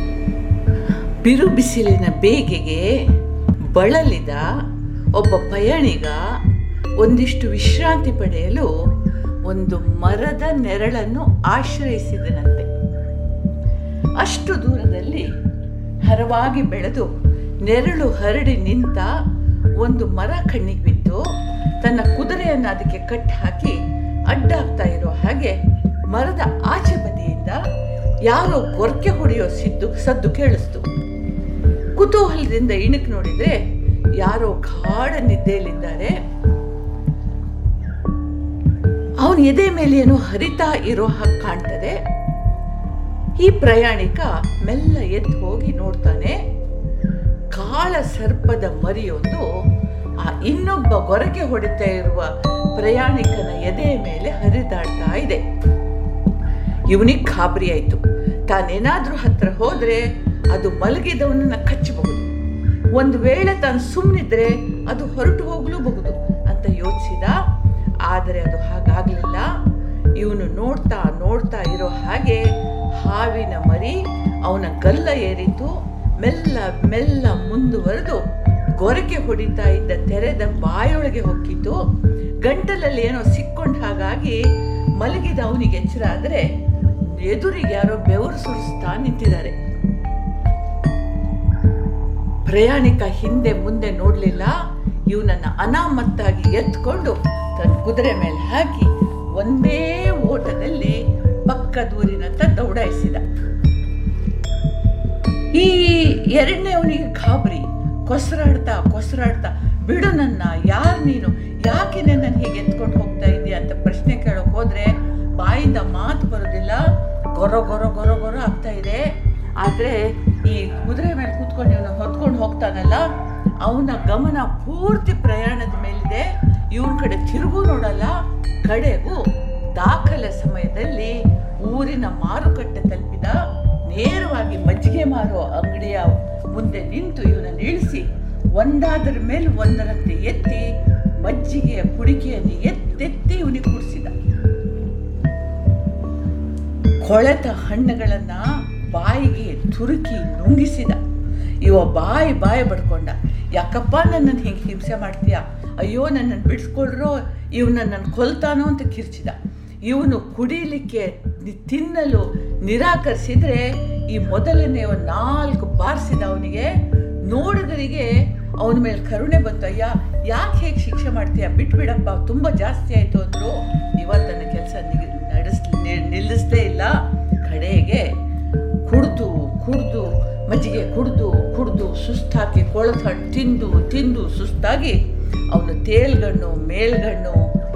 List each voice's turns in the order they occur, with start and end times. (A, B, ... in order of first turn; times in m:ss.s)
0:01.2-0:03.0 A
0:03.7-0:04.5 A
0:05.1-0:06.2 A
0:07.0-0:08.7 A
0:09.5-0:12.7 A
0:14.2-0:15.3 A
0:16.0-0:19.1 A
0:19.8-0:21.3 A
0:21.8-0:27.6 A
0:28.2-0:30.8 A
0:32.0-0:33.6 A
0:34.2-0:36.2 A
0:39.2-0:42.0 A
0:43.4-0:46.4 A
0:47.5-0:49.4 A
0:50.2-0:55.4 A
0:56.9-1:02.3 A
1:02.9-1:07.4 A
1:08.0-1:09.5 A
1:10.2-1:18.2 A
1:18.8-1:21.8 A
1:22.4-1:24.4 A
1:25.0-1:26.5 A
1:27.0-1:29.6 A
1:32.4-1:34.6 A
1:35.1-1:43.2 A
1:45.5-2:03.1 A
2:03.6-2:20.7 A
2:21.2-2:24.2 A
2:27.0-2:31.0 A
2:31.6-2:58.2 A
2:58.8-3:07.4 A